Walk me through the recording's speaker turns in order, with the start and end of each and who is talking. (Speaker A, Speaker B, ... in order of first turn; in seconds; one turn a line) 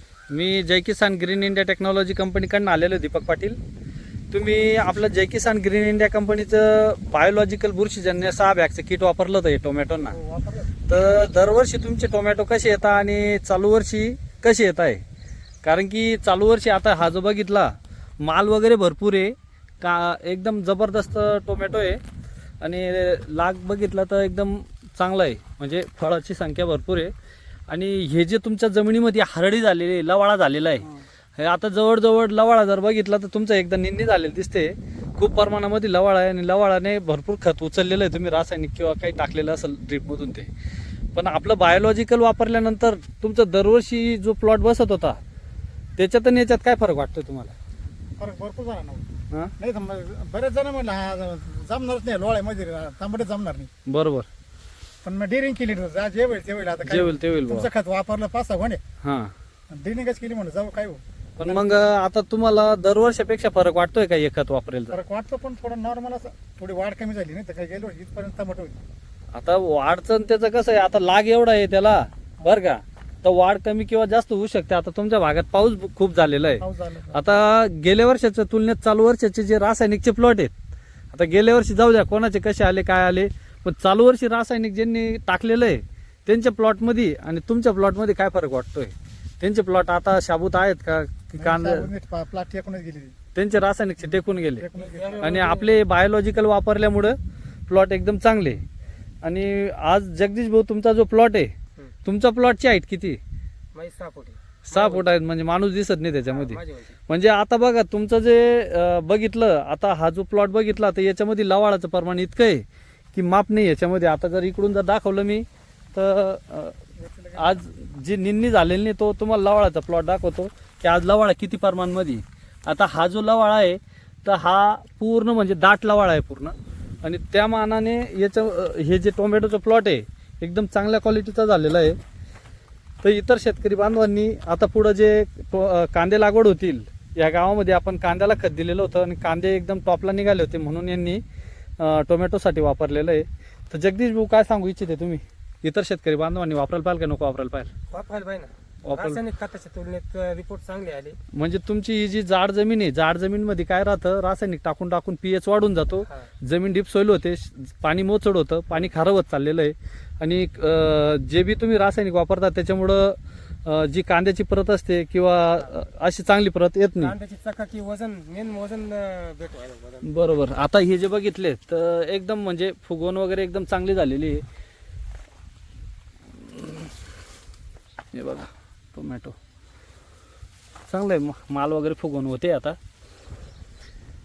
Speaker A: 0.3-3.6
Speaker A: 4.3-10.2
Speaker B: 10.1-10.7
Speaker A: 10.8-15.0
Speaker A: 15.6-22.0
Speaker A: 22.6-27.1
Speaker A: 27.7-40.5
Speaker A: 41.1-45.2
Speaker A: 46.0-47.5
Speaker B: 48.2-53.7
Speaker A: 53.9-54.3
Speaker B: 55.0-58.8
Speaker A: 56.9-57.7
Speaker A: 59.0-59.3
Speaker B: 59.7-61.7
Speaker A: 61.4-65.0
Speaker B: 64.9-68.8
Speaker A: 69.3-80.5
Speaker B: 76.6-77.3
Speaker A: 81.1-91.9
Speaker B: 91.4-93.1
Speaker A: 93.3-94.7
Speaker B: 94.6-95.5
Speaker C: 94.8-95.8
Speaker A: 95.2-97.2
Speaker A: 97.7-98.6
Speaker A: 99.2-101.5
Speaker A: 102.0-103.2
Speaker C: 103.7-105.1
Speaker A: 104.7-116.8
Speaker C: 106.2-107.0
Speaker B: 117.0-117.6
Speaker A: 117.4-132.0
Speaker A: 133.0-141.2
Speaker A: 141.8-147.7
Speaker C: 147.9-151.2
Speaker A: 148.8-149.2
Speaker A: 151.3-167.2
Speaker C: 167.0-170.1
Speaker A: 170.0-174.4
Speaker A: 176.5-176.8
Speaker A: 178.1-179.4
Speaker A: 180.9-182.8